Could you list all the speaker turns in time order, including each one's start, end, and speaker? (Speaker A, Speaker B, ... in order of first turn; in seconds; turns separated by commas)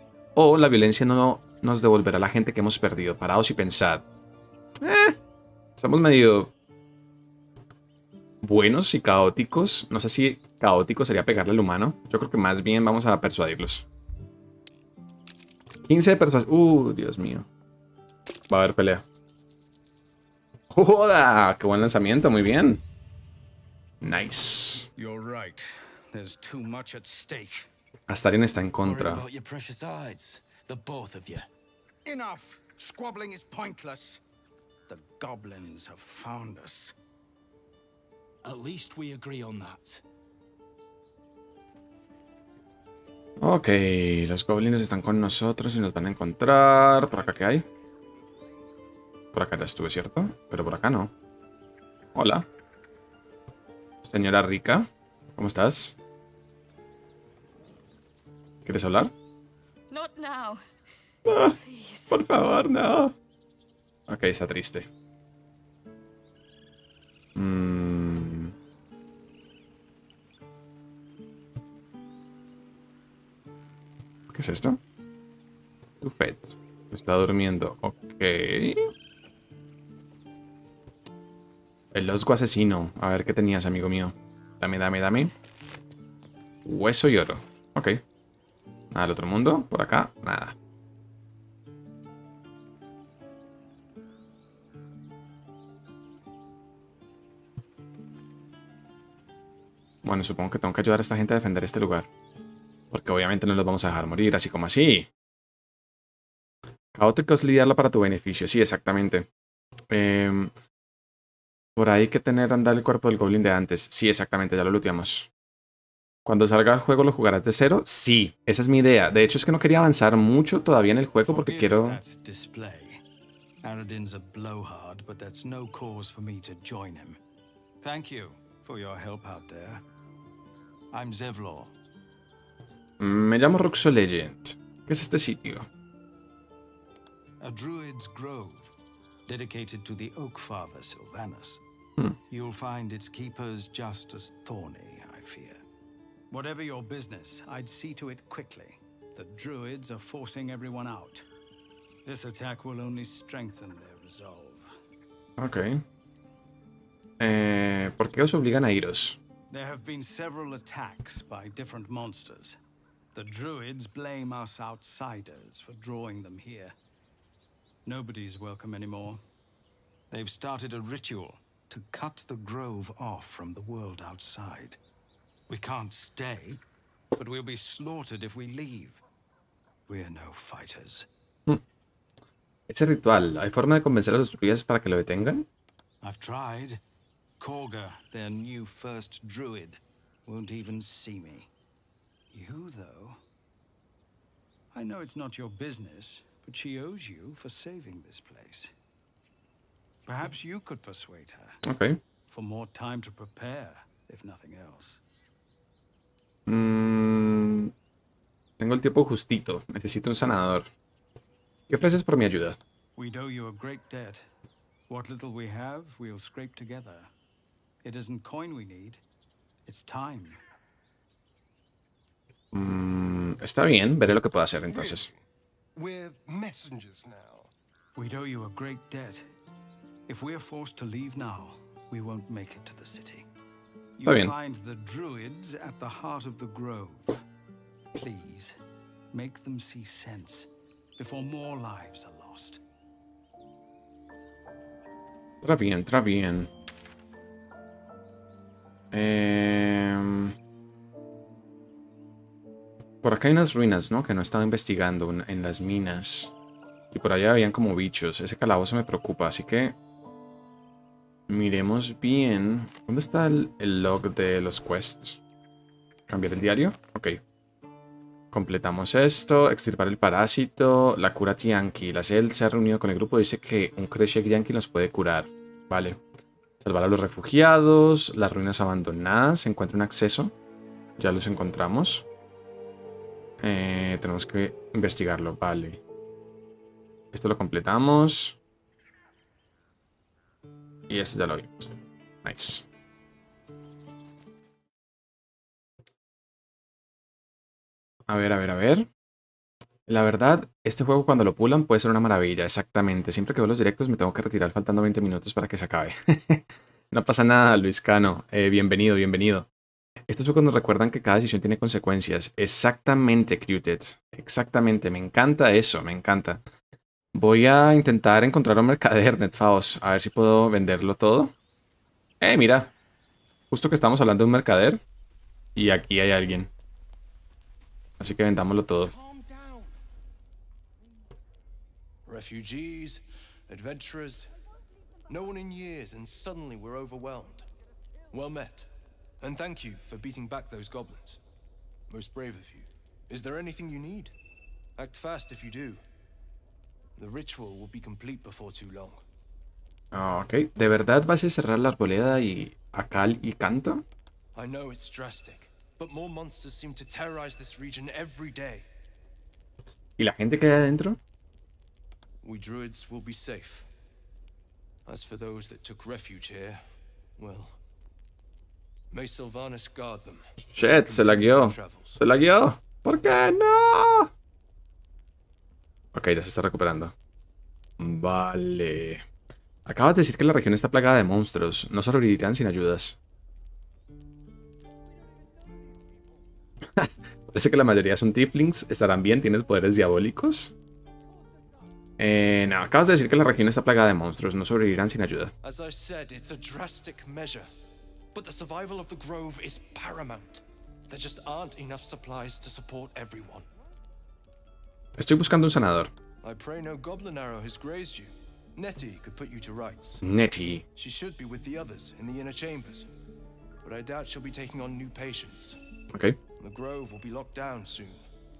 Speaker A: 0.3-4.0, Speaker A: 4.8-5.2, Speaker A: 5.8-6.5, Speaker A: 8.4-13.9, Speaker A: 15.9-17.5, Speaker A: 18.5-19.1, Speaker A: 20.7-22.8, Speaker A: 24.0-24.9, Speaker B: 24.9-27.7, Speaker A: 28.1-29.2, Speaker C: 28.8-31.5, Speaker B: 32.0-34.2, Speaker B: 34.9-36.9, Speaker C: 38.4-40.0, Speaker A: 43.4-47.6, Speaker A: 49.3-51.1, Speaker A: 52.1-52.5, Speaker A: 54.0-56.0, Speaker A: 58.6-59.1, Speaker A: 61.2-63.1, Speaker A: 64.1-64.9, Speaker A: 67.3-68.5, Speaker A: 74.3-74.8, Speaker A: 76.0-78.9, Speaker A: 81.9-85.3, Speaker A: 86.6-88.0, Speaker A: 88.9-90.6, Speaker A: 100.0-102.1, Speaker A: 102.9-105.1, Speaker A: 106.9-109.3, Speaker A: 109.9-110.5, Speaker A: 111.8-115.3, Speaker A: 116.2-122.0, Speaker B: 121.2-123.0, Speaker B: 123.6-127.2, Speaker B: 127.8-129.8, Speaker B: 130.9-131.8, Speaker A: 133.0-135.7, Speaker B: 137.4-138.7, Speaker B: 139.3-141.6, Speaker B: 142.3-145.6, Speaker B: 146.3-151.3, Speaker B: 152.1-154.7, Speaker A: 155.4-155.8, Speaker A: 157.2-159.2, Speaker B: 159.5-162.6, Speaker B: 163.1-166.7, Speaker B: 167.8-169.2, Speaker B: 170.1-174.8, Speaker B: 175.5-176.6, Speaker B: 177.1-179.0, Speaker B: 179.9-181.1, Speaker A: 182.7-185.5, Speaker B: 186.0-186.8, Speaker B: 187.4-191.5, Speaker B: 192.3-193.2, Speaker B: 194.7-198.7, Speaker B: 200.1-201.6, Speaker A: 201.6-202.0, Speaker B: 202.3-205.0, Speaker A: 206.5-207.7, Speaker A: 208.6-210.7, Speaker A: 211.7-212.6, Speaker B: 212.9-214.2, Speaker B: 214.9-217.1, Speaker B: 217.8-219.0, Speaker B: 219.6-220.4, Speaker A: 222.5-225.1, Speaker D: 224.7-225.1, Speaker D: 225.8-227.5, Speaker B: 227.9-229.2, Speaker B: 230.1-233.3, Speaker B: 234.0-237.2, Speaker A: 234.1-234.3, Speaker B: 237.9-238.6, Speaker B: 239.1-242.6, Speaker A: 245.4-246.5, Speaker A: 248.9-250.3, Speaker A: 253.0-256.3, Speaker A: 256.9-259.8, Speaker A: 261.3-265.2, Speaker A: 266.1-267.2, Speaker A: 268.3-276.0, Speaker A: 276.6-280.3, Speaker A: 281.0-282.1, Speaker A: 283.4-285.8, Speaker A: 287.1-288.4, Speaker A: 290.9-292.6, Speaker A: 298.1-298.9, Speaker A: 299.9-309.5, Speaker A: 310.1-316.4, Speaker A: 317.1-321.4, Speaker A: 322.2-322.7, Speaker A: 323.5-324.8, Speaker A: 325.6-326.5, Speaker A: 328.0-328.9, Speaker D: 328.9-329.7, Speaker D: 332.1-334.3, Speaker D: 335.1-337.5, Speaker D: 338.1-338.7, Speaker D: 339.2-341.2, Speaker D: 341.9-344.1, Speaker D: 344.8-345.8, Speaker D: 347.0-349.0, Speaker A: 349.9-353.9, Speaker D: 354.4-358.7, Speaker A: 360.0-361.0, Speaker D: 362.2-363.7, Speaker D: 364.9-366.6, Speaker D: 367.2-367.6, Speaker D: 368.9-372.0, Speaker A: 370.6-374.1, Speaker A: 375.9-376.9, Speaker A: 377.8-379.0, Speaker A: 379.6-383.0, Speaker A: 386.7-390.5, Speaker A: 392.0-395.3, Speaker D: 395.4-397.5, Speaker D: 398.1-403.5, Speaker A: 405.0-405.9, Speaker D: 406.2-410.0, Speaker A: 410.0-410.6, Speaker D: 410.8-412.9, Speaker D: 413.6-415.6, Speaker A: 415.9-416.2, Speaker D: 416.4-418.1